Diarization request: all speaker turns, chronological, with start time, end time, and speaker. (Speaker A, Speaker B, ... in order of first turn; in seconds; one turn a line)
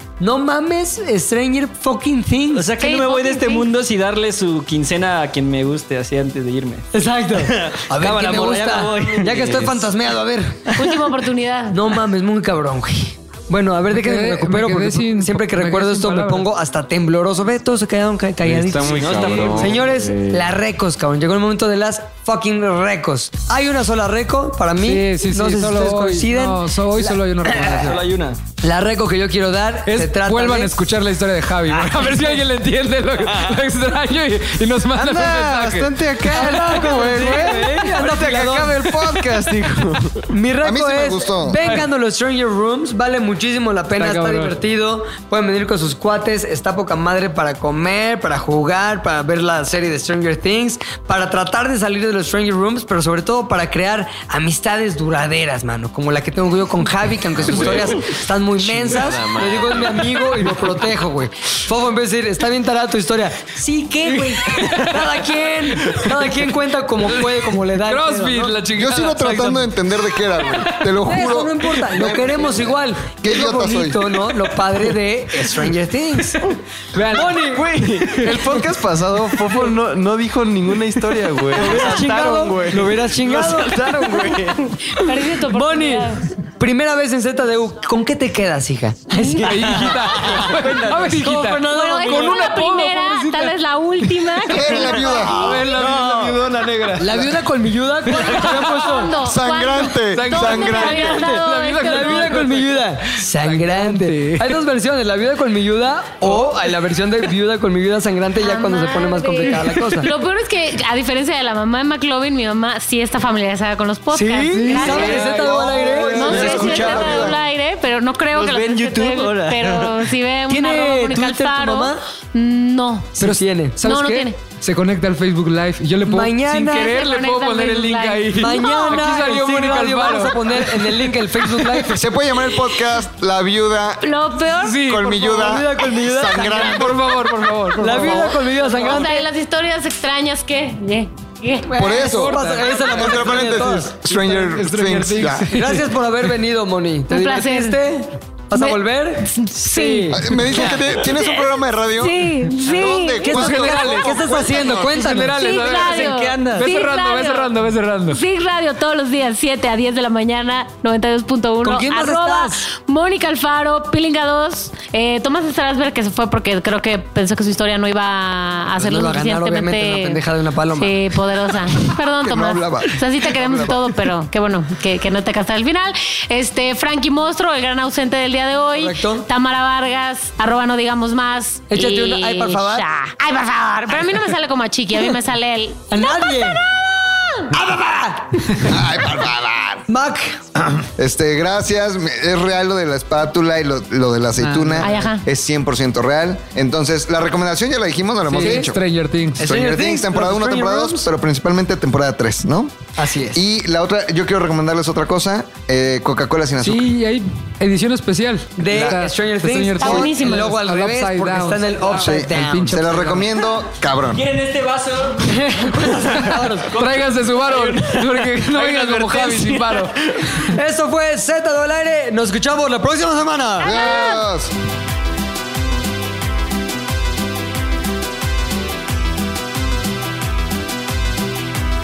Speaker A: 0.2-2.7
Speaker B: 2.5-6.8
Speaker C: 2.8-3.7
Speaker A: 6.9-10.7
Speaker B: 7.4-9.9
Speaker C: 10.8-12.0
Speaker A: 11.7-27.9
Speaker D: 13.9-16.5
Speaker E: 18.4-20.4
Speaker B: 18.8-19.9
Speaker D: 24.8-28.1
Speaker B: 27.7-28.4
Speaker A: 28.6-30.8
Speaker D: 29.9-38.3
Speaker B: 31.7-32.2
Speaker E: 34.9-40.2
Speaker A: 36.3-38.9
Speaker A: 40.3-68.6
Speaker F: 40.6-41.6
Speaker D: 44.0-44.5
Speaker E: 57.4-60.5
Speaker D: 64.1-65.1
Speaker D: 67.2-70.9
Speaker F: 68.7-74.0
Speaker A: 71.0-76.4
Speaker D: 76.9-77.5
Speaker A: 77.1-77.7
Speaker E: 77.4-84.8
Speaker D: 78.2-78.5
Speaker A: 81.5-84.0
Speaker C: 84.8-86.3
Speaker A: 85.0-89.9
Speaker C: 89.2-90.0
Speaker D: 89.4-94.8
Speaker B: 90.5-91.2
Speaker A: 90.9-92.5
Speaker C: 91.6-95.8
Speaker F: 94.5-95.5
Speaker D: 95.3-96.4
Speaker E: 95.7-97.3
Speaker B: 95.7-96.4
Speaker A: 97.0-99.1
Speaker C: 98.4-102.4
Speaker F: 99.2-101.2
Speaker D: 100.1-104.6
Speaker A: 100.7-110.1
Speaker C: 108.4-123.2
Speaker A: 114.1-116.7
Speaker D: 114.6-115.6
Speaker F: 114.9-117.4
Speaker B: 116.3-117.2
Speaker B: 118.3-120.0
Speaker A: 120.5-122.0
Speaker A: 123.2-124.3
Speaker C: 123.8-124.4
Speaker D: 124.6-131.9
Speaker A: 126.0-127.0
Speaker C: 126.8-129.2
Speaker A: 128.3-132.0
Speaker F: 131.9-134.1
Speaker C: 134.0-134.8
Speaker D: 134.5-135.6
Speaker F: 134.8-137.3
Speaker A: 135.2-136.9
Speaker D: 136.3-138.5
Speaker A: 137.8-139.3
Speaker F: 137.9-138.3
Speaker C: 138.6-142.2
Speaker A: 141.7-143.9
Speaker F: 141.7-145.6
Speaker D: 142.0-143.5
Speaker D: 144.0-145.8
Speaker A: 145.4-150.2
Speaker C: 147.1-147.8
Speaker C: 148.5-150.2
Speaker F: 150.1-154.7
Speaker C: 151.1-153.3
Speaker A: 153.2-156.1
Speaker D: 153.2-158.2
Speaker C: 155.3-170.2
Speaker B: 156.1-156.6
Speaker A: 161.6-162.6
Speaker A: 168.8-171.2
Speaker C: 170.7-187.5
Speaker F: 172.2-173.9
Speaker A: 178.7-179.2
Speaker A: 181.7-182.8
Speaker A: 185.9-186.6
Speaker A: 187.5-188.8
Speaker F: 188.6-189.8
Speaker A: 189.9-190.5
Speaker F: 190.7-198.8
Speaker D: 194.4-195.0
Speaker C: 194.8-195.2
Speaker D: 198.2-199.5
Speaker A: 198.4-198.7
Speaker A: 199.4-201.1
Speaker F: 199.4-202.7
Speaker A: 203.0-203.4
Speaker F: 203.3-206.9
Speaker D: 206.6-213.3
Speaker A: 208.6-213.2
Speaker C: 209.8-210.6
Speaker F: 212.0-214.2
Speaker B: 214.1-220.3
Speaker A: 215.2-216.7
Speaker D: 216.7-220.0
Speaker A: 220.5-223.9
Speaker F: 223.6-224.5
Speaker C: 223.6-224.2